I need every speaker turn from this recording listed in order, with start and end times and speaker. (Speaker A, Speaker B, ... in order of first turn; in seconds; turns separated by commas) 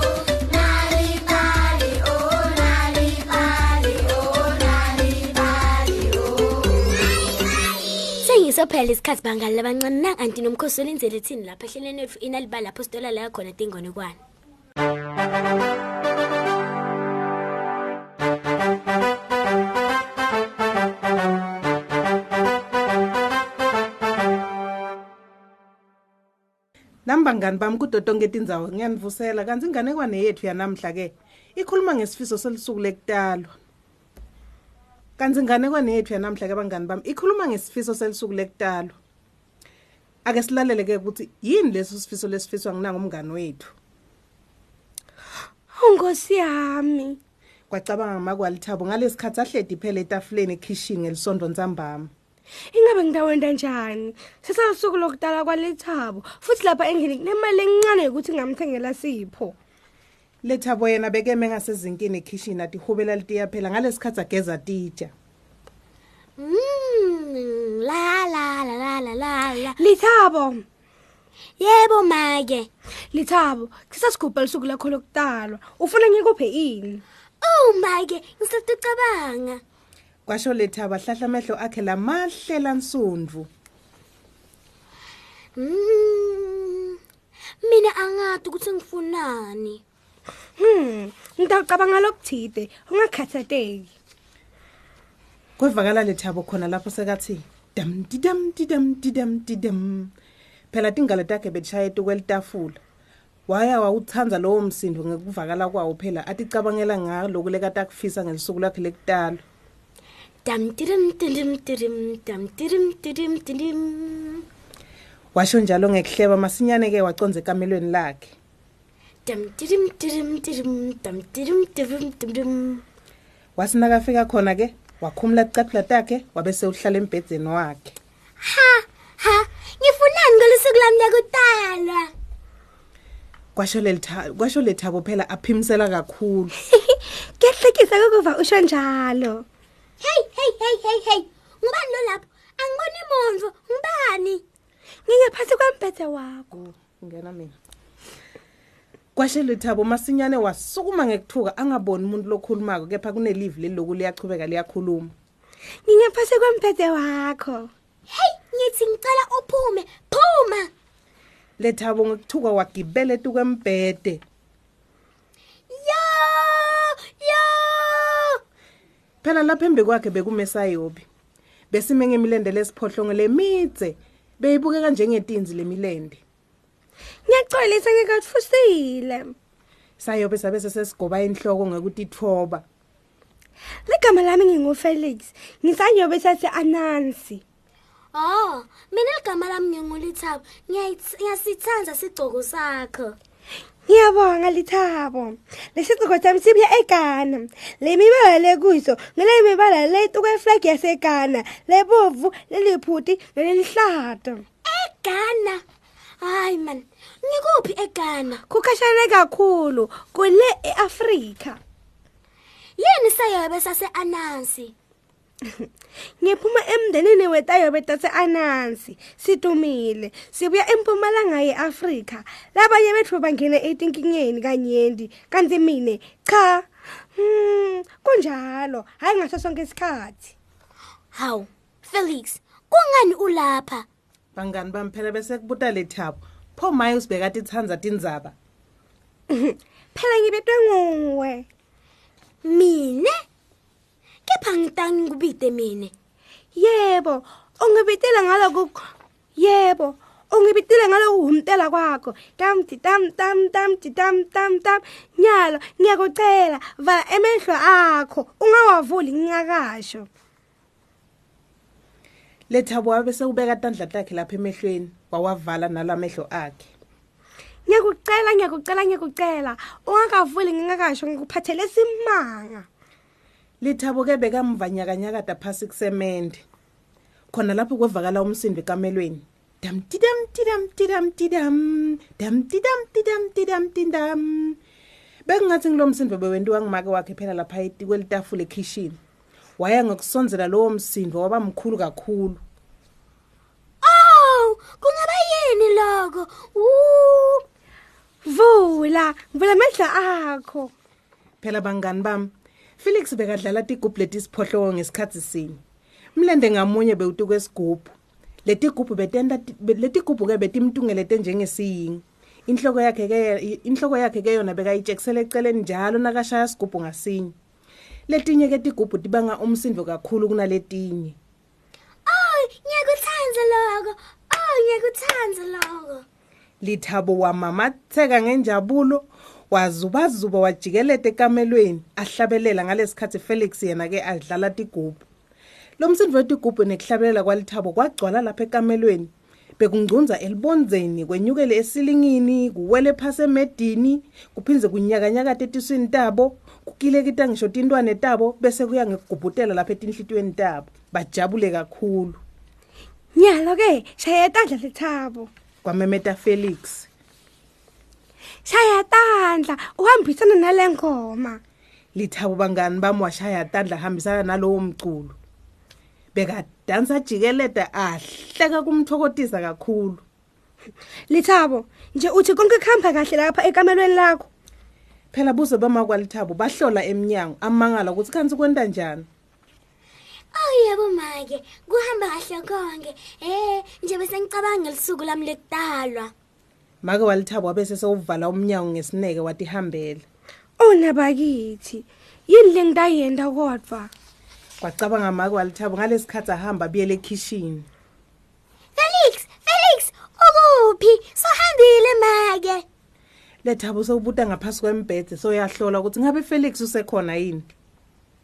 Speaker A: 1.1-5.5, Speaker A: 8.2-14.2, Speaker B: 27.1-33.5, Speaker B: 35.2-39.0, Speaker B: 40.2-43.7, Speaker C: 45.7-47.2, Speaker B: 47.7-52.1, Speaker C: 52.7-59.5, Speaker B: 60.4-65.1, Speaker A: 66.4-69.8, Speaker C: 69.8-70.6, Speaker A: 71.6-72.7, Speaker C: 73.1-77.0, Speaker A: 77.4-79.6, Speaker B: 80.3-83.5, Speaker A: 85.6-87.0, Speaker A: 87.6-89.8, Speaker C: 90.6-93.9, Speaker B: 95.6-100.1, Speaker B: 100.7-102.8, Speaker B: 103.5-109.4, Speaker A: 110.5-114.5, Speaker B: 115.3-118.3, Speaker A: 119.3-122.8, Speaker B: 123.6-128.0, Speaker A: 128.4-132.1, Speaker B: 133.6-136.6, Speaker C: 136.7-139.4, Speaker A: 140.0-144.4, Speaker C: 145.1-146.5, Speaker B: 146.5-147.6, Speaker B: 149.2-155.1, Speaker C: 155.9-157.7, Speaker A: 158.1-160.7, Speaker B: 161.6-164.2, Speaker A: 165.7-168.4, Speaker B: 169.2-171.1, Speaker B: 171.7-176.2, Speaker C: 177.3-179.3, Speaker B: 180.0-182.7, Speaker C: 183.9-187.4, Speaker A: 188.1-193.2, Speaker C: 193.9-204.4, Speaker A: 204.7-205.6, Speaker A: 206.2-208.4, Speaker C: 208.5-211.6, Speaker A: 212.8-214.7, Speaker C: 216.2-230.3, Speaker A: 231.1-233.9, Speaker B: 234.4-238.4, Speaker C: 239.3-241.5, Speaker A: 242.4-243.2, Speaker A: 244.3-245.9, Speaker C: 246.6-260.1, Speaker B: 262.5-266.7, Speaker C: 267.7-272.7, Speaker B: 273.6-276.4, Speaker B: 277.3-284.6, Speaker B: 285.3-289.0, Speaker B: 289.6-292.4, Speaker A: 293.8-297.4, Speaker C: 298.2-300.7, Speaker B: 301.4-305.6, Speaker B: 306.1-317.4, Speaker B: 318.1-321.2, Speaker A: 322.1-326.1, Speaker B: 326.6-335.0, Speaker B: 335.8-352.2, Speaker C: 353.1-355.3, Speaker B: 355.6-356.9, Speaker C: 358.4-361.4, Speaker B: 361.9-365.2, Speaker B: 366.1-370.0, Speaker C: 371.1-374.3, Speaker B: 375.1-379.1, Speaker A: 380.3-386.1, Speaker B: 386.8-390.1, Speaker C: 390.6-393.9, Speaker B: 394.6-397.7, Speaker A: 398.8-402.6, Speaker B: 403.4-407.5